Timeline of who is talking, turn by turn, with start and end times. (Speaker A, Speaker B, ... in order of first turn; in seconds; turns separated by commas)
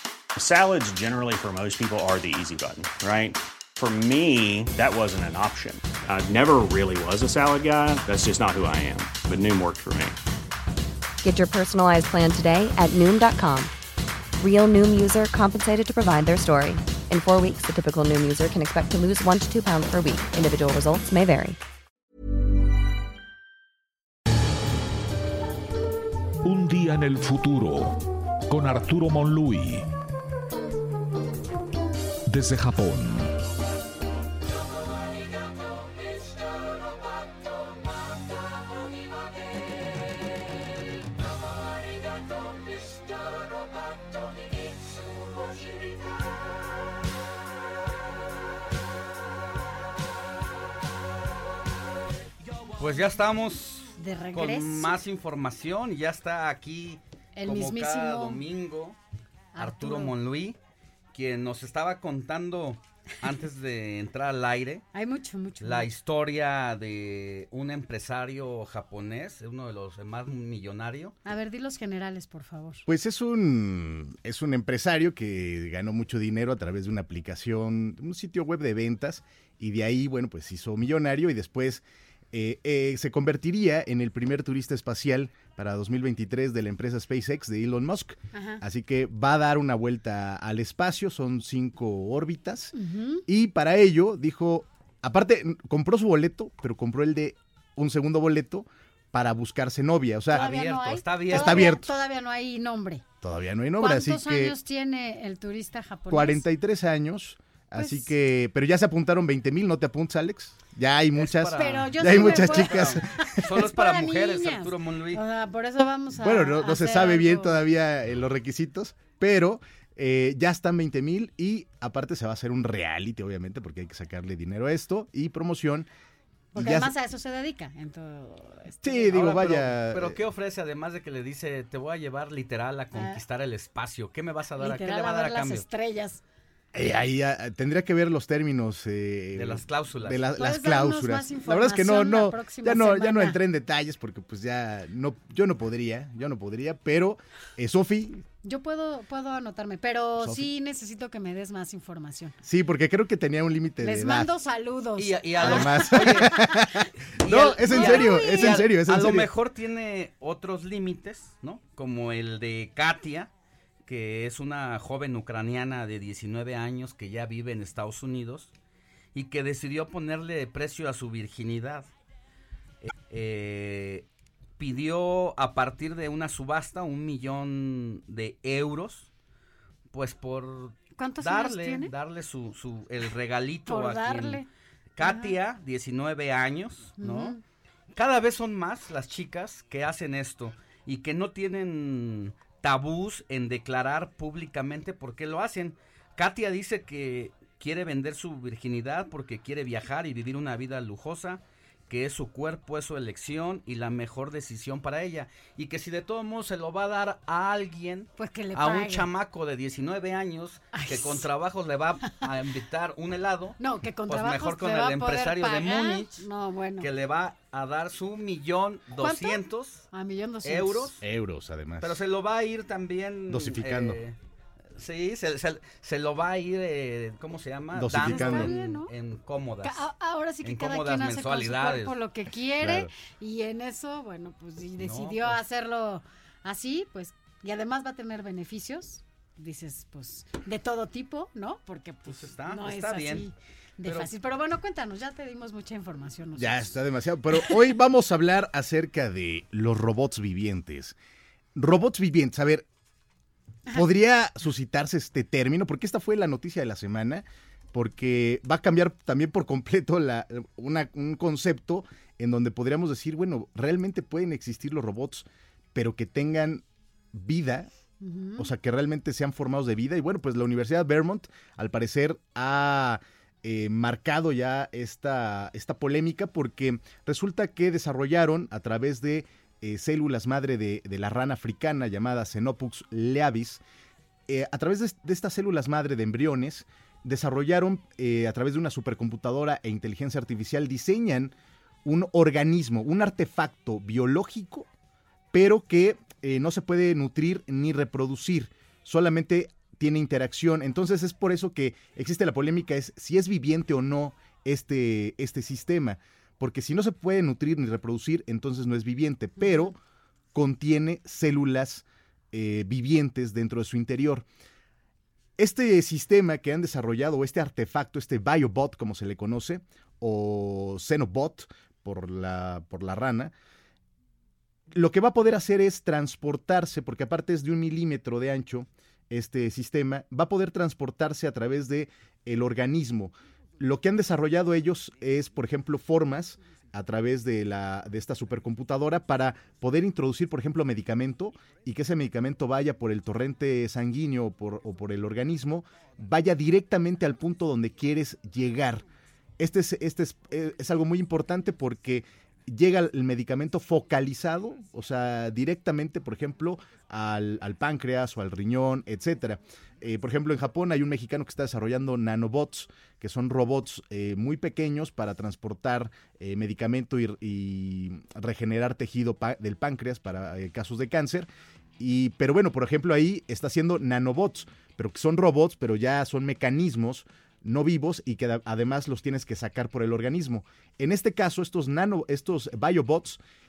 Speaker A: 0.4-10.2, Speaker B: 11.2-13.7, Speaker B: 14.4-21.6, Speaker C: 26.4-28.0, Speaker C: 28.5-29.9, Speaker C: 32.3-33.3, Speaker D: 52.8-59.0, Speaker E: 54.0-55.0, Speaker E: 57.4-58.5, Speaker E: 59.5-60.2, Speaker D: 59.6-60.6, Speaker D: 61.1-64.8, Speaker E: 64.9-65.9, Speaker D: 65.6-71.2, Speaker E: 71.2-72.8, Speaker F: 72.9-92.7, Speaker E: 88.3-88.6, Speaker E: 92.8-93.2, Speaker F: 93.3-100.5, Speaker E: 100.3-103.0, Speaker D: 100.3-101.7, Speaker F: 101.3-101.9, Speaker F: 103.2-104.5, Speaker E: 103.8-106.5, Speaker F: 106.1-113.7, Speaker E: 107.8-108.1, Speaker D: 111.2-115.2, Speaker E: 111.6-117.6, Speaker F: 116.2-125.9, Speaker E: 126.5-129.2, Speaker F: 126.5-126.9, Speaker F: 128.8-130.2, Speaker D: 129.1-135.7, Speaker E: 132.9-133.2, Speaker E: 134.6-136.2, Speaker F: 136.7-148.2, Speaker D: 139.3-140.3, Speaker E: 140.3-143.4, Speaker E: 148.4-152.4, Speaker F: 150.2-150.5, Speaker F: 152.4-154.3, Speaker E: 153.8-156.6, Speaker D: 155.0-156.5, Speaker F: 155.4-159.3, Speaker D: 157.2-163.3, Speaker E: 157.7-158.6, Speaker D: 163.9-168.5, Speaker D: 169.1-171.9, Speaker D: 172.8-174.1, Speaker D: 174.6-179.1, Speaker D: 179.9-184.4, Speaker E: 181.0-181.9, Speaker E: 183.7-184.5, Speaker D: 185.0-187.4, Speaker E: 185.0-185.3, Speaker E: 187.0-187.4, Speaker D: 187.9-216.2, Speaker E: 208.2-209.1, Speaker E: 210.7-211.3, Speaker E: 213.6-216.9, Speaker D: 216.8-219.9, Speaker E: 219.0-221.0, Speaker D: 220.4-221.0, Speaker F: 221.0-222.0, Speaker D: 221.8-224.2, Speaker F: 223.3-224.0, Speaker D: 224.8-229.9, Speaker F: 227.7-228.5, Speaker E: 227.9-228.9, Speaker E: 229.6-246.8, Speaker D: 230.4-232.0, Speaker F: 232.6-232.9, Speaker D: 234.8-235.4, Speaker D: 242.1-243.3, Speaker D: 243.8-244.1, Speaker F: 246.4-251.0, Speaker E: 247.3-247.7, Speaker F: 251.6-252.7, Speaker F: 253.7-267.7, Speaker E: 268.0-268.5, Speaker F: 268.4-283.6, Speaker F: 284.3-291.3, Speaker F: 291.9-294.7, Speaker F: 295.3-309.8, Speaker E: 309.4-309.7, Speaker F: 310.3-314.3, Speaker F: 315.4-323.3, Speaker F: 324.7-348.9, Speaker F: 349.4-383.2